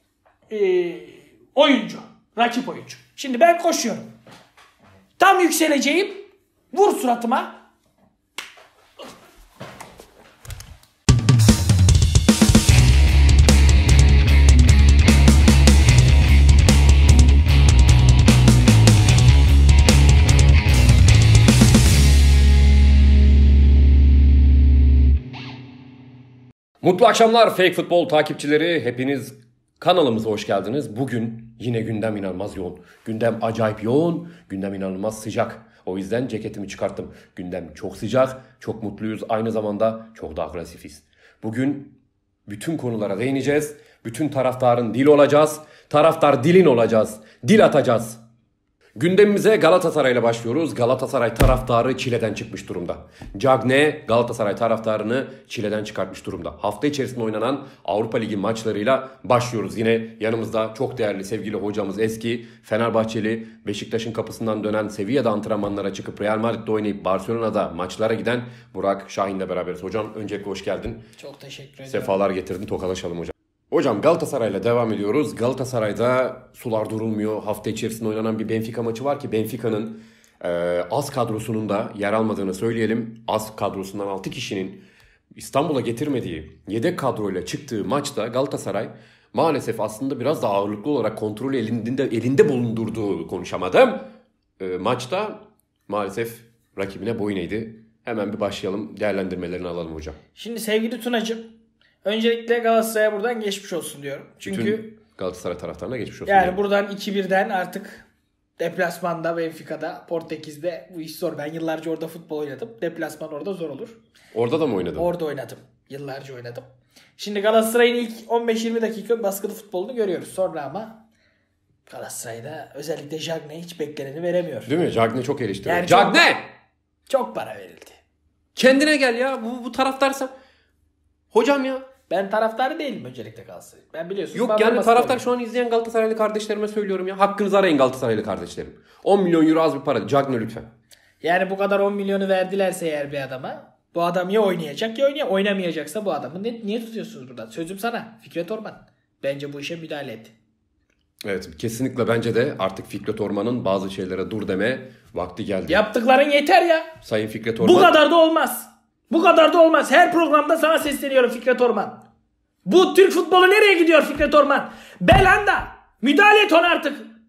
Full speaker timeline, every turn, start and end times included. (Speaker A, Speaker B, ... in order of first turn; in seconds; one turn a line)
Speaker A: 0.5-4.0
Speaker A: 5.2-7.5
Speaker B: 26.8-48.2
Speaker B: 49.0-71.1
Speaker A: 71.2-72.2
Speaker B: 71.9-100.2
Speaker A: 100.3-101.5
Speaker A: 102.0-104.9
Speaker B: 104.4-106.6
Speaker A: 106.2-108.0
Speaker A: 108.6-114.0
Speaker B: 114.3-115.1
Speaker A: 115.0-116.6
Speaker A: 117.2-121.0
Speaker A: 121.9-124.7
Speaker B: 124.7-126.5
Speaker A: 125.6-126.3
Speaker A: 127.1-128.0
Speaker B: 128.6-130.3
Speaker B: 131.3-131.8
Speaker A: 132.1-135.2
Speaker B: 134.3-140.7
Speaker A: 141.2-150.3
Speaker B: 151.2-155.9
Speaker A: 155.7-156.9
Speaker B: 157.0-157.9
Speaker A: 157.6-162.0
Speaker A: 162.7-167.1